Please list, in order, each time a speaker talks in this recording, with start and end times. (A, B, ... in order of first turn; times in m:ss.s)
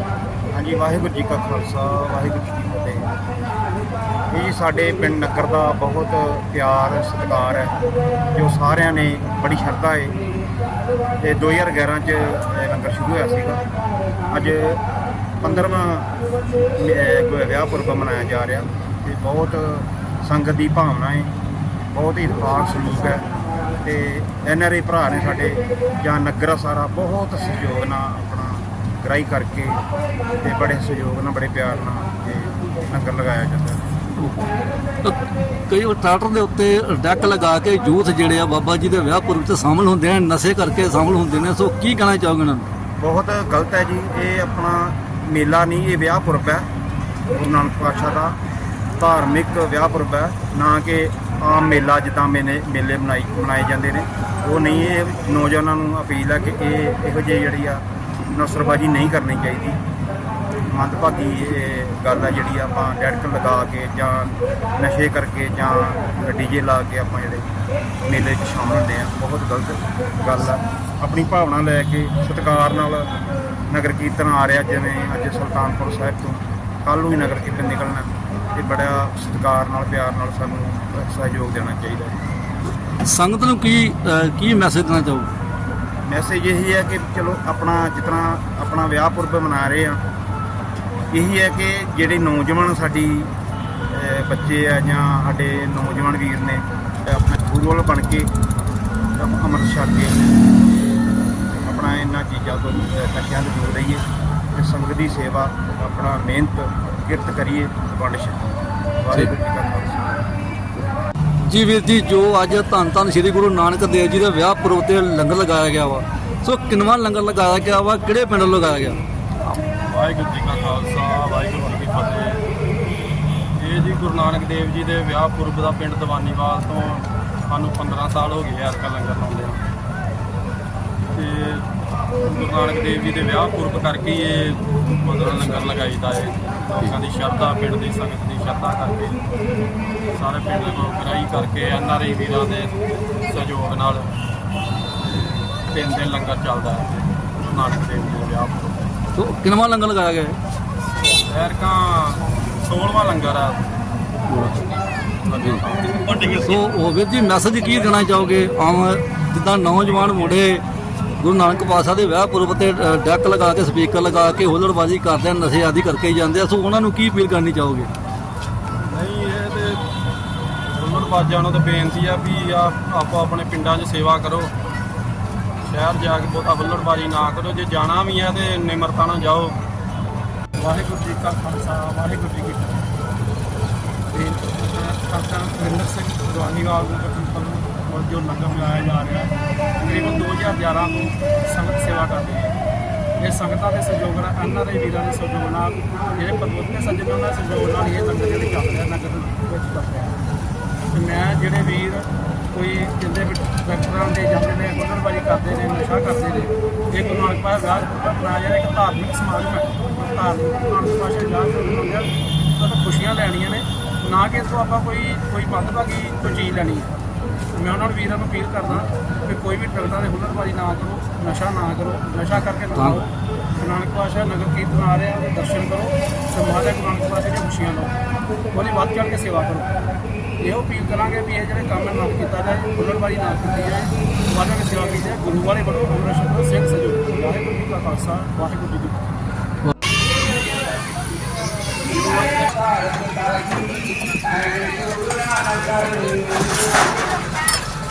0:00.5-0:03.1 A
0:04.3-0:07.8 A
0:08.3-0:10.2 A
0:11.2-0:13.6 A
0:14.3-0:14.8 A
0:15.4-0:16.1 A
0:16.7-0:21.4 A
0:21.9-0:23.3 A
0:23.8-0:29.8 A
0:30.4-0:33.8 A
0:35.7-0:42.7 B
0:43.0-0:46.7 A
0:47.3-0:48.3 A
0:49.0-0:59.8 A
1:00.7-1:07.5 A
1:08.0-1:13.1 A
1:13.7-1:22.2 A
1:23.0-1:25.3 B
1:26.0-1:30.0 A
1:31.1-1:33.3 A
1:33.9-1:38.3 A
1:39.2-1:40.4 A
1:41.6-1:50.1 A
1:51.5-1:59.0 B
1:59.8-2:02.4 C
2:03.6-2:09.6 C
2:11.1-2:19.2 C
2:20.1-2:24.1 C
2:25.7-2:28.9 C
2:29.2-2:30.4 B
2:31.3-2:33.6 C
2:34.3-2:34.6 B
2:35.3-2:36.6 C
2:36.4-2:40.6 B
2:41.2-2:47.9 B
2:48.9-2:49.8 C
2:50.7-2:54.5 C
2:55.6-2:59.6 C
3:00.6-3:02.9 D
3:04.1-3:12.6 D
3:13.2-3:20.2 D
3:20.9-3:47.9 D
3:48.5-3:49.7 D
3:50.4-3:59.1 D